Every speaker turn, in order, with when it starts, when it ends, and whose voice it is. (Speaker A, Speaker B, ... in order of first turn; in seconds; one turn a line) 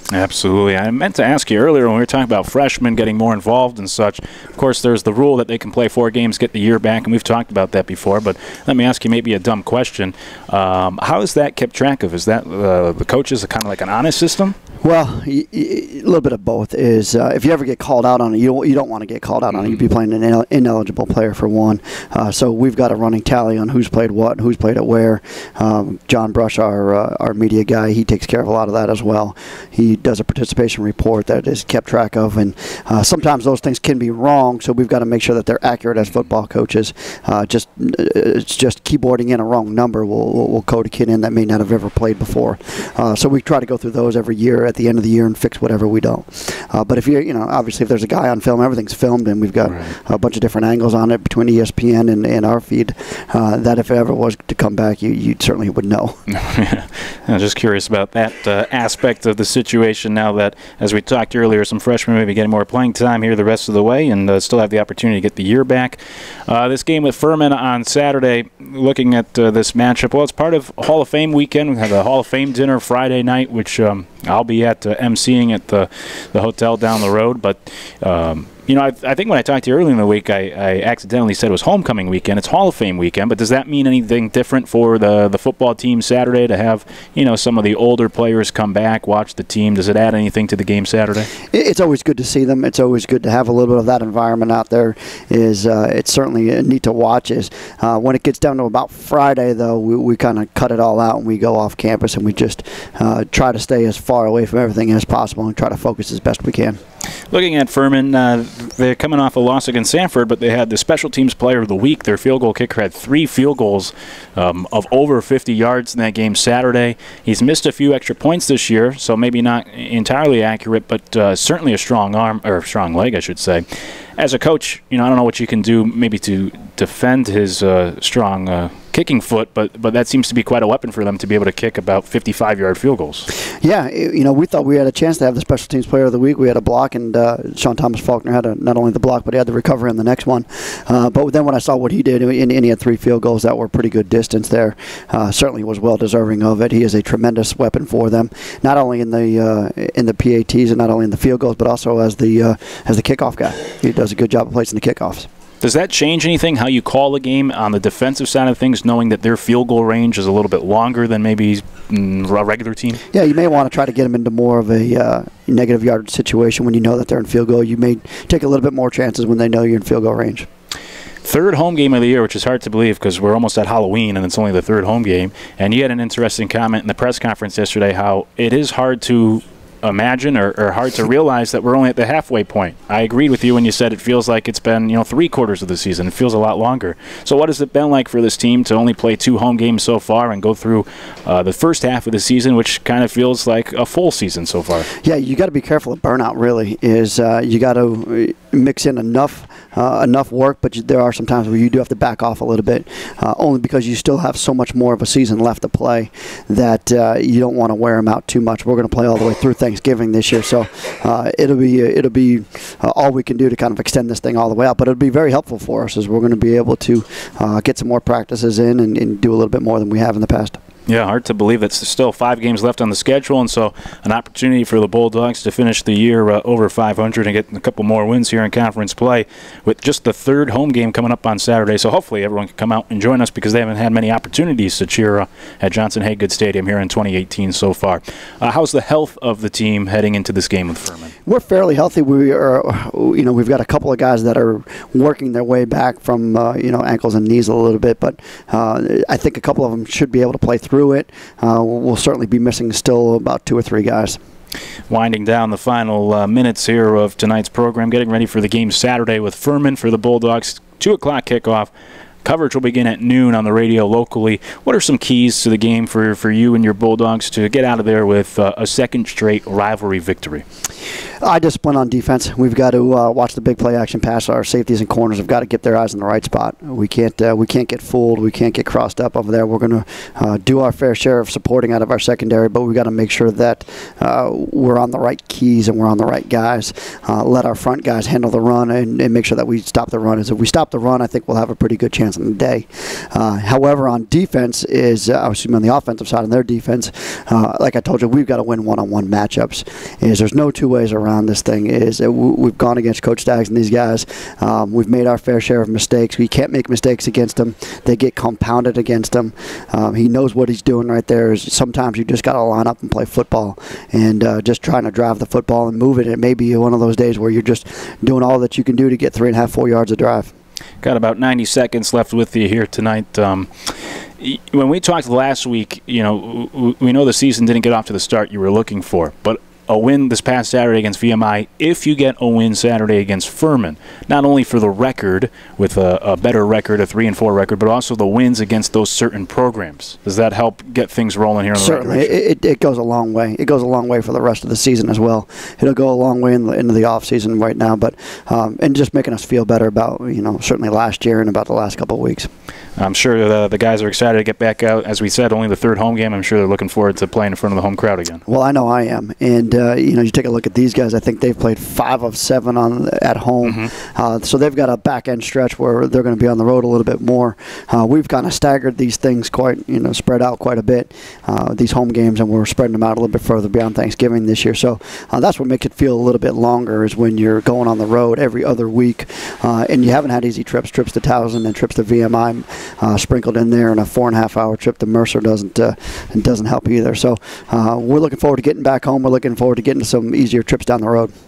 Speaker A: 0.1-14.6
Speaker B: 14.8-56.2
Speaker A: 19.5-19.9
Speaker A: 49.7-49.9
Speaker A: 56.3-91.3
Speaker B: 91.5-106.8
Speaker A: 107.3-133.3
Speaker B: 133.6-155.3
Speaker A: 155.6-163.0
Speaker B: 163.1-170.5
Speaker A: 171.2-194.9
Speaker B: 195.0-220.6
Speaker A: 220.9-241.1
Speaker B: 241.3-254.2
Speaker A: 254.9-261.7
Speaker A: 262.2-270.4
Speaker B: 271.2-320.3
Speaker A: 320.8-342.1
Speaker B: 341.6-352.3
Speaker A: 352.8-358.2
Speaker B: 358.3-391.1
Speaker A: 363.4-363.7